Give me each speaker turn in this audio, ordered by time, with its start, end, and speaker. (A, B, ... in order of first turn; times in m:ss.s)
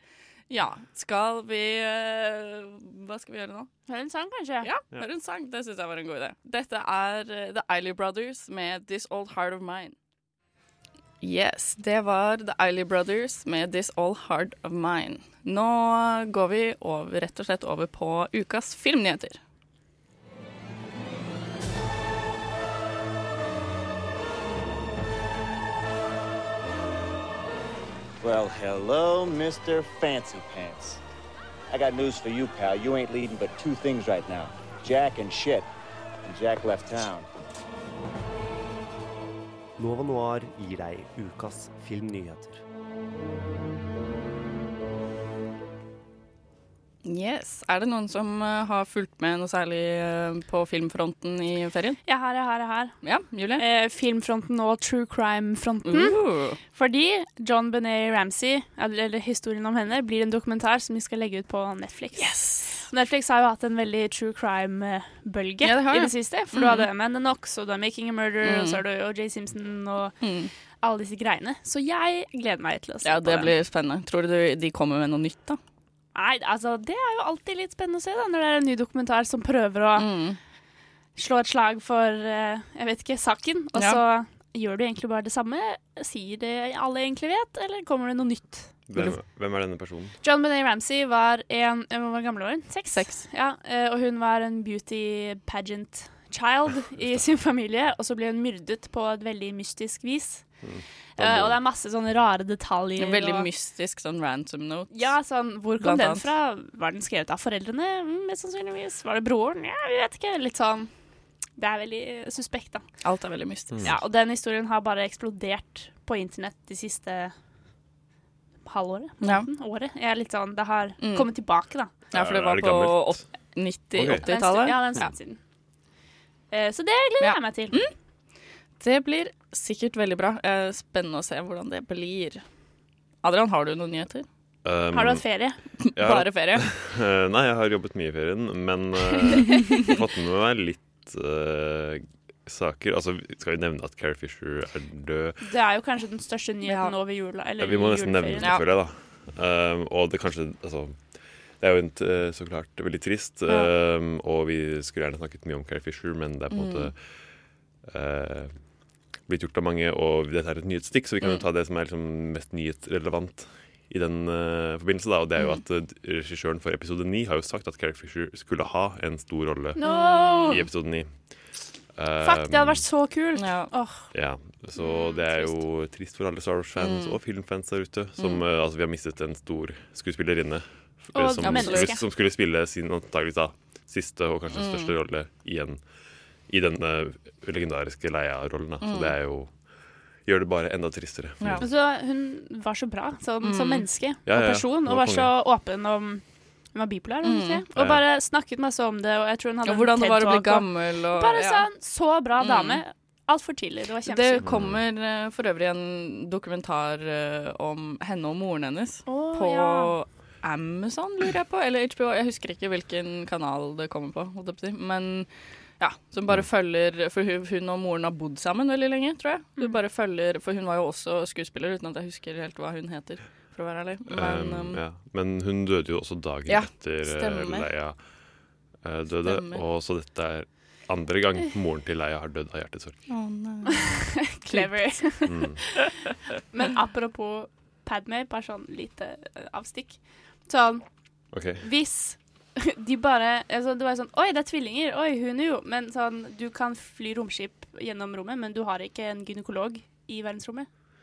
0:00.5-0:03.7 A
0:03.9-0:04.7 B
0:04.6-0:10.0 A
0:11.2-0:19.4 A
0:28.2-0:31.0 C
0:31.7-0:35.7 C
0:36.3-0:37.3 C
0:39.8-0:42.6 D
0:47.0-0:52.0 A
0:52.1-0:53.0 B
0:53.0-0:53.6 A
0:53.6-1:10.2 B
0:55.8-0:56.6 A
1:02.2-1:02.9 A
1:05.6-1:06.9 A
1:08.4-1:08.8 A
1:10.2-1:10.5 A
1:10.8-1:13.5 B
1:13.0-1:15.6 A
1:16.2-1:20.1 B
1:20.0-1:20.4 A
1:21.2-1:28.7 B
1:28.9-1:30.2 E
1:30.2-1:40.5 B
1:32.9-1:33.3 A
1:37.0-1:37.2 E
1:40.6-1:41.6 E
1:41.2-1:43.5 B
1:43.0-1:45.2 A
1:44.9-1:50.9 B
1:45.8-1:46.3 A
1:51.6-1:52.8 B
1:53.0-1:53.9 A
1:53.7-1:54.0 E
1:53.8-1:57.3 B
1:58.7-2:01.9 B
1:59.2-1:59.5 A
2:01.0-2:01.3 A
2:02.1-2:03.2 E
2:02.1-2:05.1 A
2:03.9-2:04.3 E
2:04.3-2:05.4 B
2:06.5-2:07.8 B
2:07.2-2:07.9 A
2:08.8-2:12.4 A
2:13.2-2:14.3 A
2:14.6-2:15.2 E
2:14.9-2:15.6 B
2:15.8-2:16.7 A
2:16.0-2:25.4 E
2:25.4-2:28.5 B
2:26.6-2:26.9 A
2:27.6-2:37.0 E
2:28.4-2:28.6 A
2:36.5-2:36.9 A
2:37.8-2:38.6 E
2:39.3-2:49.8 E
2:49.8-2:50.6 B
2:49.8-2:50.6 A
2:50.5-2:51.1 E
2:52.0-2:52.8 E
2:52.2-2:54.1 B
2:53.4-2:53.7 A
2:54.1-3:05.8 E
2:54.8-2:55.6 B
2:56.8-2:57.2 A
3:01.1-3:02.0 B
3:01.4-3:02.0 A
3:04.5-3:04.9 A
3:06.5-3:09.5 E
3:08.8-3:09.2 A
3:10.2-3:11.6 E
3:11.4-3:11.7 A
3:11.6-3:24.5 B
3:13.4-3:13.9 A
3:14.3-3:15.3 E
3:17.2-3:17.6 A
3:17.8-3:18.0 E
3:19.6-3:21.7 A
3:22.4-3:22.8 A
3:24.1-3:35.3 A
3:24.4-3:24.8 E
3:29.1-3:29.9 B
3:35.8-3:44.8 A
3:44.1-3:48.0 E
3:46.5-3:47.7 A
3:48.8-3:53.0 E
3:49.2-3:49.6 A
3:53.1-3:55.1 A
3:53.7-3:55.9 B
3:55.3-3:55.6 E
3:56.5-4:00.8 B
4:01.3-4:01.6 E
4:01.6-4:10.7 B